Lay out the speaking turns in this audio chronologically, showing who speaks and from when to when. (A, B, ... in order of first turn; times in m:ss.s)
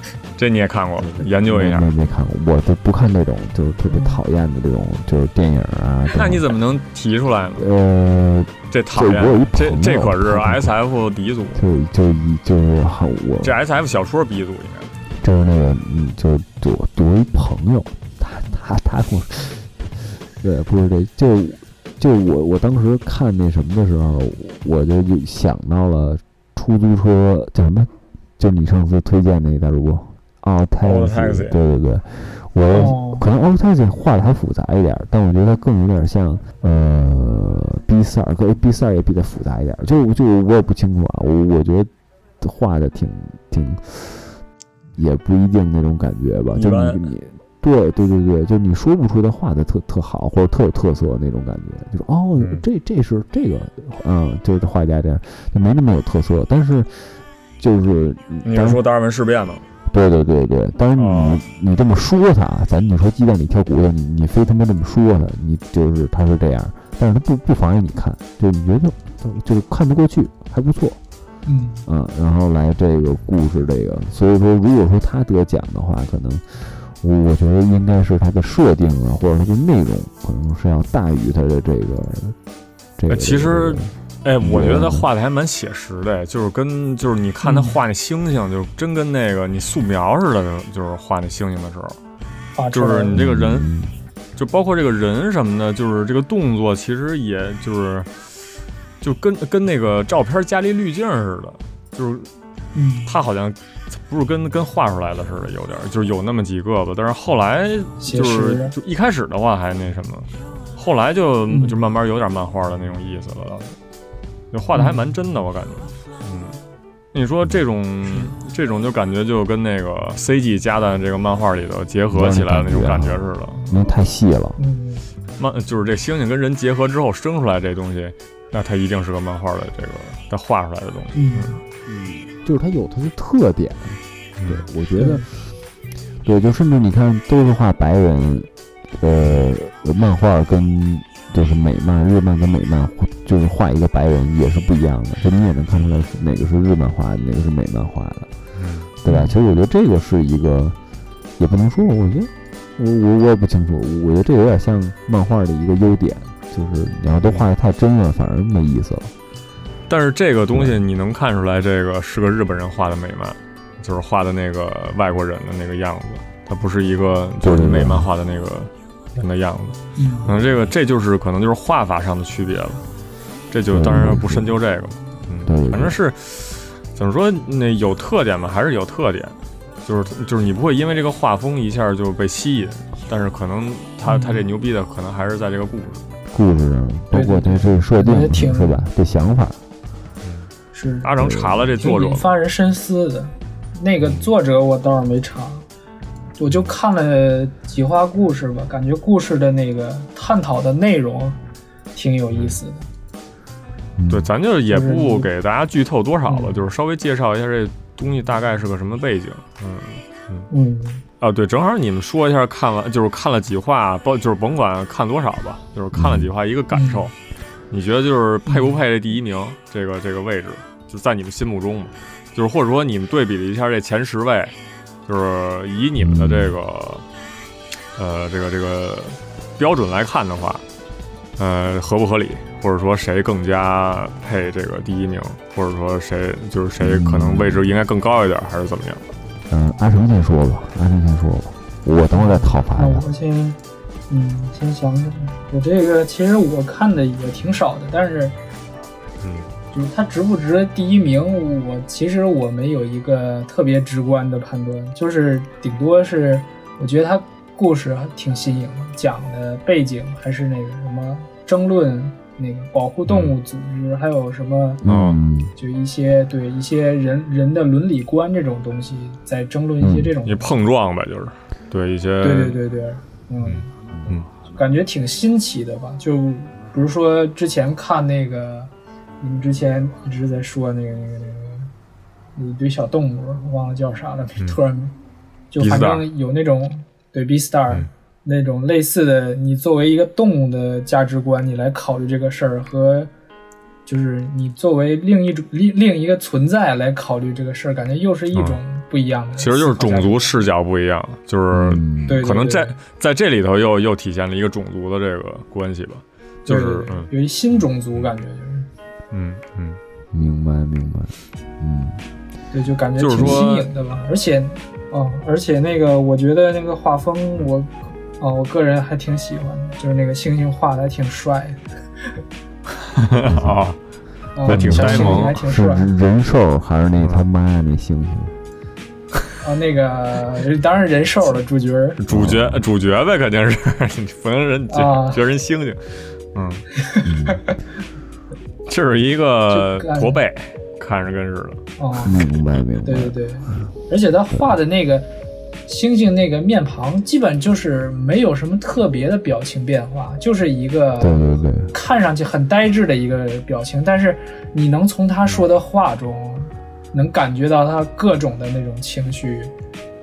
0:00.4-0:01.9 A
0:01.0-0:06.5 B
0:03.9-0:04.2 C
0:06.1-0:07.7 A
0:07.6-0:10.8 B
0:08.7-0:11.6 A
0:11.5-0:13.6 B
0:13.4-0:14.9 A
0:15.2-0:44.4 B
0:30.8-0:31.6 A
0:32.7-0:33.2 C
0:44.9-0:58.8 B
0:46.5-0:47.0 A
0:52.4-0:52.6 A
0:58.4-0:59.6 A
0:59.9-1:11.0 B
1:00.9-1:01.4 A
1:11.4-1:11.8 C
1:11.8-1:22.4 B
1:23.0-1:25.1 B
1:23.1-1:32.0 A
1:27.4-1:27.8 C
1:32.5-1:33.2 C
1:32.7-1:33.7 A
1:33.1-1:33.9 B
1:34.4-1:38.1 A
1:39.0-1:42.3 A
1:42.7-1:43.1 C
1:43.0-1:53.7 A
1:48.0-1:48.7 C
1:51.5-1:51.8 C
1:54.5-1:56.6 A
1:54.7-1:55.1 C
1:57.1-2:03.6 A
2:02.1-2:04.6 B
2:04.6-2:05.1 C
2:05.4-2:11.6 A
2:11.1-2:11.6 C
2:11.8-2:15.5 B
2:14.4-2:14.7 A
2:15.0-2:15.2 C
2:16.2-2:28.3 B
2:19.2-2:19.5 A
2:28.5-2:28.9 A
2:29.0-2:30.8 B
2:29.0-2:29.4 C
2:31.4-2:39.1 B
2:37.2-2:37.5 A
2:39.9-2:52.8 A
2:40.5-2:40.8 B
2:47.4-2:48.1 B
2:50.0-2:50.3 C
2:53.5-3:06.0 A
2:53.7-2:54.5 B
2:55.4-2:56.0 B
3:04.0-3:04.4 C
3:06.3-3:09.6 B
3:07.1-3:08.9 C
3:10.2-3:10.5 A
3:10.7-3:11.1 C
3:11.0-3:12.3 A
3:11.2-3:11.7 B
3:11.8-3:15.6 C
3:14.0-3:14.3 A
3:16.4-3:21.4 C
3:21.9-3:22.9 C
3:22.3-3:22.6 A
3:24.0-3:24.3 B
3:24.1-3:30.5 A
3:24.7-3:25.3 C
3:26.3-3:26.6 C
3:30.5-3:31.0 C
3:31.2-3:37.1 A
3:35.9-3:36.3 B
3:36.7-3:37.1 C
3:37.7-3:44.5 A
3:38.4-3:38.8 C
3:45.0-3:47.0 A
3:46.0-3:46.6 B
3:48.0-3:50.6 A
3:51.4-3:59.0 A
3:56.8-3:57.7 B
3:59.5-4:03.0 B
4:02.1-4:03.6 C
4:04.1-4:08.4 C
4:09.2-4:09.5 A
4:09.7-4:24.8 C
4:23.1-4:23.3 A
4:24.8-4:25.5 B
4:24.8-4:25.2 A
4:25.6-4:30.5 C
4:29.8-4:30.1 B
4:30.2-4:32.6 A
4:32.2-4:33.7 C
4:33.4-4:34.3 A
4:33.9-4:34.2 B
4:34.5-4:41.7 C
4:42.4-4:44.9 C
4:45.5-4:53.1 C
4:45.6-4:46.0 A
4:53.8-5:00.3 C
4:58.3-4:58.6 A
4:59.4-5:07.1 A
5:01.5-5:02.2 B
5:02.1-5:02.8 C
5:06.4-5:08.7 C
5:09.1-5:09.8 A
5:10.1-5:12.0 B
5:12.5-5:21.6 C
5:13.0-5:13.7 A
5:13.1-5:13.4 B
5:22.9-5:23.8 A
5:23.3-5:23.6 B
5:24.4-5:25.9 C
5:24.4-5:25.4 A
5:24.5-5:28.4 B
5:27.0-5:27.2 A
5:29.4-5:32.0 C
5:32.0-5:36.6 A
5:32.1-5:32.6 B
5:34.7-5:35.2 C
5:36.8-5:37.1 C
5:37.0-5:37.5 B
5:38.6-5:41.6 A
5:39.5-5:40.2 C
5:41.8-5:42.1 C
5:42.0-5:43.7 B
5:42.8-5:45.1 C
5:45.6-5:51.2 C
5:51.0-5:51.7 B
5:51.7-5:59.5 C